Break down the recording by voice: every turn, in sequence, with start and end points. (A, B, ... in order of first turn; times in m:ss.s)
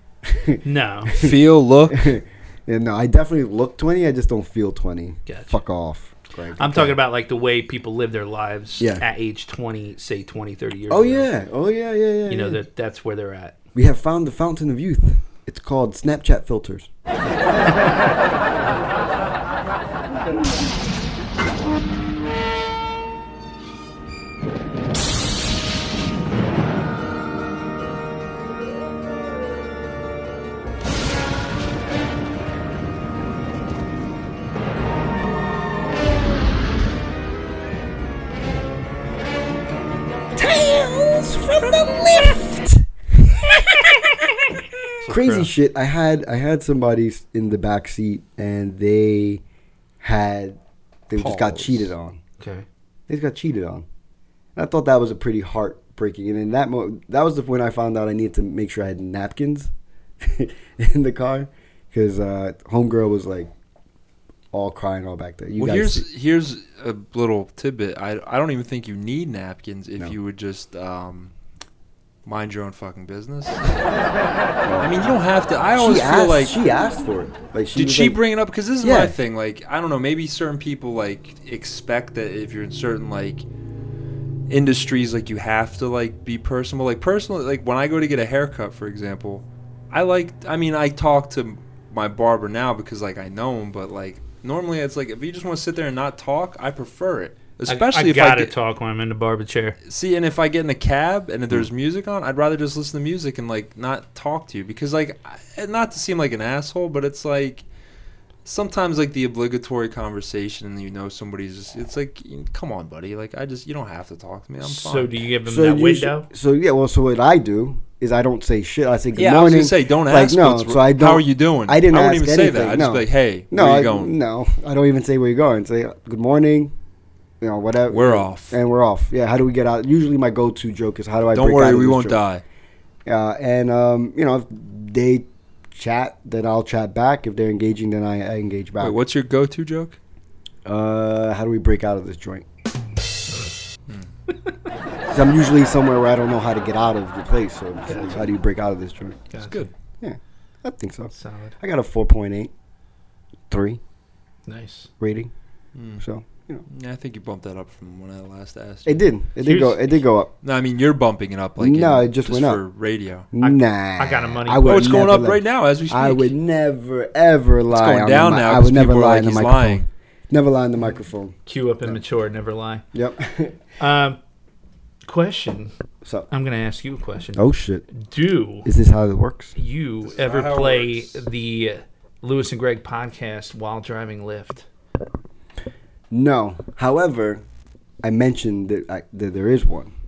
0:00.2-0:01.3 A
0:00.6-0:01.2 B
0:01.1-0:02.1 C
0:01.9-0:07.0 A
0:05.3-0:05.6 B
0:06.6-0:11.3 B
0:08.8-0:09.0 A
0:10.9-0:12.6 A
0:12.3-0:13.5 B
0:13.7-0:16.9 A
0:40.3-0:49.4 A
0:45.0-0:45.5 B
0:50.0-0:52.2 A
0:51.2-0:51.9 C
0:52.4-0:52.6 B
0:53.1-0:53.8 A
0:54.6-1:03.5 A
1:04.5-1:06.0 A
1:05.6-1:11.3 C
1:12.2-1:13.9 C
1:14.6-1:15.0 A
1:14.8-1:16.6 C
1:15.7-1:18.2 A
1:17.7-1:23.4 C
1:18.8-1:19.1 A
1:24.5-1:38.5 C
1:37.7-1:39.8 B
1:39.8-1:47.6 C
1:48.4-1:55.2 C
1:54.6-1:56.3 B
1:55.4-2:06.7 A
1:59.1-2:04.1 C
2:07.4-2:12.2 A
2:07.9-2:08.6 C
2:11.3-2:12.4 C
2:13.0-2:19.0 A
2:18.8-2:20.0 C
2:20.6-2:22.4 A
2:25.1-2:29.2 A
2:27.8-2:28.3 B
2:29.3-2:29.7 B
2:29.4-2:29.7 C
2:30.0-2:32.5 A
2:31.1-2:31.6 B
2:33.5-2:33.8 A
2:34.5-2:34.9 B
2:35.0-2:35.3 A
2:35.7-2:36.0 C
2:36.0-2:36.6 A
2:36.7-2:39.8 C
2:38.8-2:40.3 A
2:40.4-2:43.3 C
2:41.6-2:42.6 A
2:43.3-2:52.0 A
2:43.4-2:45.0 B
2:44.6-2:46.3 C
2:47.7-2:49.9 C
2:51.4-2:52.8 B
2:52.9-2:53.6 A
2:53.8-2:54.2 B
2:55.0-2:55.7 B
2:56.0-2:56.3 A
2:56.3-2:58.7 B
2:57.4-2:57.8 A
2:58.6-2:59.5 A
2:59.6-3:04.6 B
3:00.0-3:01.2 C
3:06.1-3:07.4 A
3:08.0-3:09.9 A